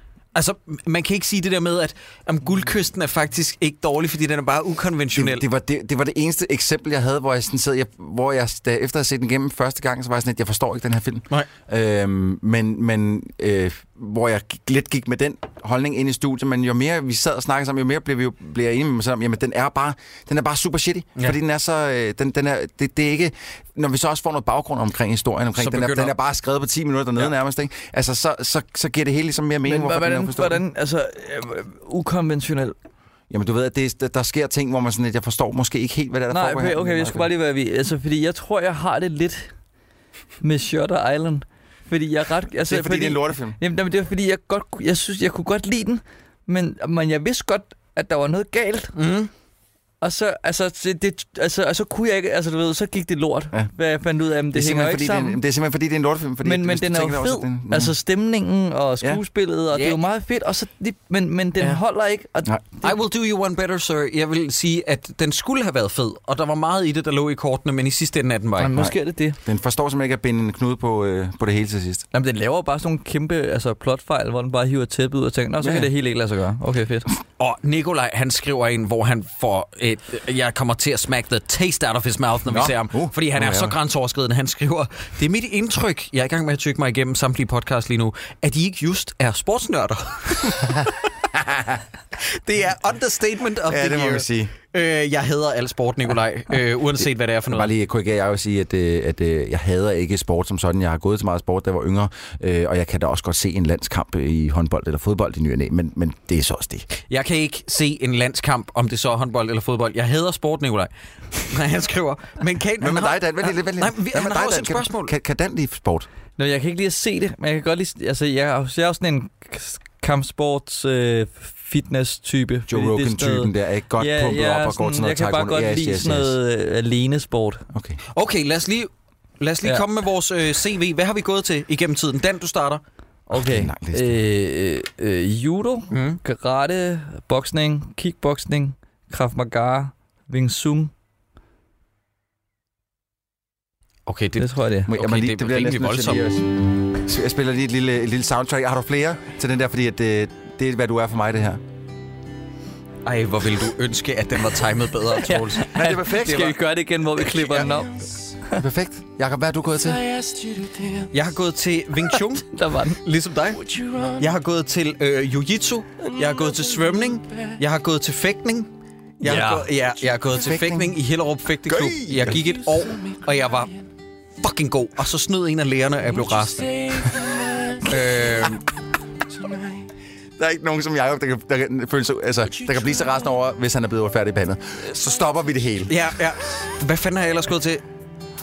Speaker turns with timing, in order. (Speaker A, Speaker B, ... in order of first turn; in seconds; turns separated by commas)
Speaker A: 0.3-5.4, Speaker B: 5.1-30.6, Speaker A: 25.6-26.1, Speaker C: 29.6-32.8, Speaker B: 33.3-37.3, Speaker C: 36.3-39.5, Speaker C: 40.4-48.9, Speaker B: 42.7-43.6, Speaker A: 49.0-49.3, Speaker C: 50.0-55.4, Speaker B: 54.5-57.9, Speaker C: 56.4-62.9, Speaker A: 59.7-60.0, Speaker A: 62.8-68.8, Speaker C: 68.6-69.4, Speaker B: 68.7-72.0, Speaker C: 72.1-77.1, Speaker B: 75.6-75.9, Speaker A: 77.4-91.0, Speaker B: 82.5-83.8, Speaker B: 91.3-91.8, Speaker A: 92.3-97.7, Speaker B: 93.7-94.5, Speaker B: 97.5-106.9, Speaker A: 107.1-115.1, Speaker B: 112.8-116.1, Speaker C: 116.4-127.6, Speaker B: 122.7-126.3, Speaker B: 127.7-128.0, Speaker A: 128.1-132.8, Speaker C: 133.3-140.9, Speaker B: 133.3-134.2, Speaker A: 135.9-136.2, Speaker A: 144.1-146.3, Speaker C: 144.4-144.9, Speaker B: 144.9-151.6, Speaker A: 153.0-155.7, Speaker C: 155.2-158.6, Speaker B: 155.7-156.6, Speaker A: 157.4-157.7, Speaker B: 158.5-160.2, Speaker A: 161.1-162.5, Speaker C: 162.4-163.0, Speaker A: 163.0-168.7, Speaker A: 169.2-173.8, Speaker C: 169.2-169.7, Speaker B: 170.3-171.0, Speaker B: 171.7-172.5, Speaker A: 174.4-177.0, Speaker A: 177.8-178.6, Speaker B: 180.4-186.0, Speaker A: 185.9-187.8